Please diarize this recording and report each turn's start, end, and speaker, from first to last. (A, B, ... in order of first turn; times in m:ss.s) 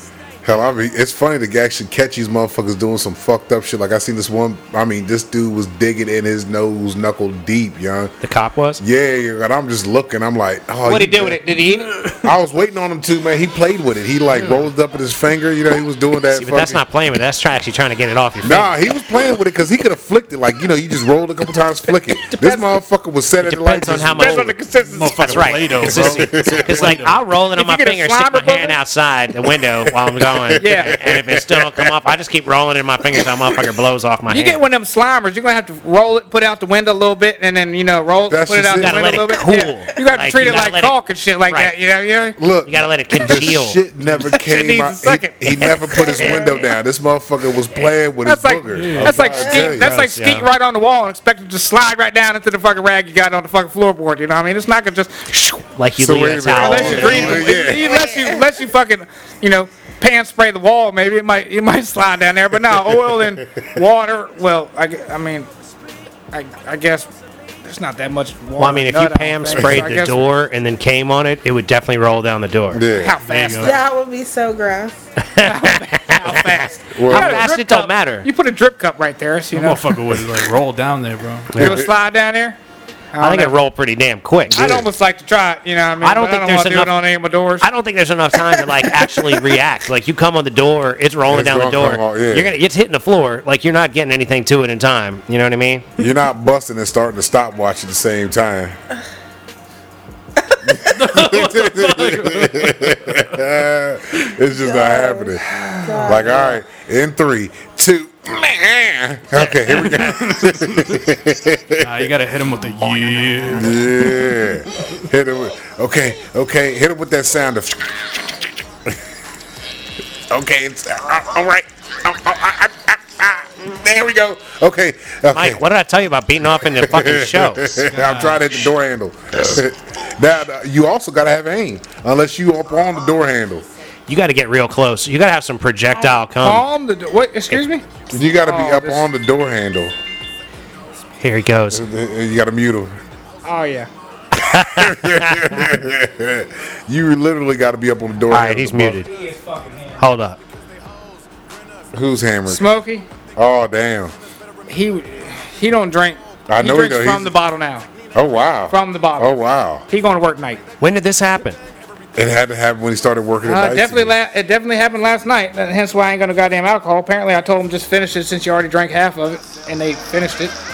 0:00.4-0:08.1 A
0:08.2-0:08.8 B
0:08.8-0:11.5 A
0:10.8-0:12.1 C
0:12.2-0:16.8 A
0:16.3-0:18.8 B
0:18.4-0:24.6 A
0:22.3-0:22.7 C
0:23.4-0:24.5 B
0:24.0-0:25.6 C
0:24.8-0:27.2 D
0:25.2-0:34.6 B
0:25.9-0:26.8 A
0:27.5-0:28.8 C
0:29.9-0:32.0 A
0:30.6-0:31.0 C
0:34.3-0:42.4 C
0:38.3-0:39.3 A
0:38.8-0:41.7 B
0:42.4-0:49.9 A
0:42.7-0:43.8 B
0:44.3-0:46.6 C
0:48.2-0:55.1 C
0:48.8-0:49.3 D
0:49.6-0:50.5 B
0:55.3-0:57.4 B
0:56.0-0:58.0 A
0:56.6-1:05.5 C
0:56.7-0:58.4 E
1:02.8-1:03.7 A
1:06.3-1:07.1 C
1:07.6-1:10.3 C
1:08.6-1:12.8 B
1:12.7-1:13.2 A
1:12.9-1:13.8 C
1:13.2-1:13.8 D
1:13.6-1:15.0 E
1:15.2-1:18.3 B
1:15.4-1:19.9 C
1:16.9-1:17.5 A
1:19.5-1:21.5 D
1:21.5-1:21.8 B
1:21.6-1:22.6 C
1:21.6-1:21.9 A
1:23.2-1:23.6 C
1:23.2-1:24.9 B
1:24.5-1:27.6 C
1:26.0-1:27.1 B
1:27.6-1:35.9 B
1:31.3-1:32.5 A
1:36.0-1:38.8 A
1:40.7-1:45.4 A
1:40.8-1:43.3 D
1:44.6-1:46.6 E
1:45.7-1:46.2 C
1:46.0-1:52.0 A
1:49.7-1:51.0 D
1:51.8-1:54.3 D
1:53.5-1:58.9 A
2:00.3-2:05.6 A
2:05.3-2:07.8 B
2:06.6-2:13.6 A
2:07.9-2:08.6 D
2:14.1-2:16.7 B
2:16.4-2:19.0 C
2:18.1-2:20.0 A
2:21.2-2:21.8 B
2:21.7-2:23.0 A
2:23.4-2:23.9 C
2:24.4-2:25.6 B
2:24.5-2:29.0 A
2:28.3-2:29.1 B
2:29.0-2:30.0 C
2:30.0-2:30.4 B
2:31.9-2:32.7 A
2:32.5-2:33.0 C
2:33.4-2:34.1 A
2:34.7-2:37.9 C
2:36.5-2:37.3 A
2:38.1-2:39.9 A
2:38.7-2:39.3 C
2:39.9-2:40.6 C
2:40.8-2:41.6 B
2:42.2-2:44.2 A
2:43.4-2:50.6 C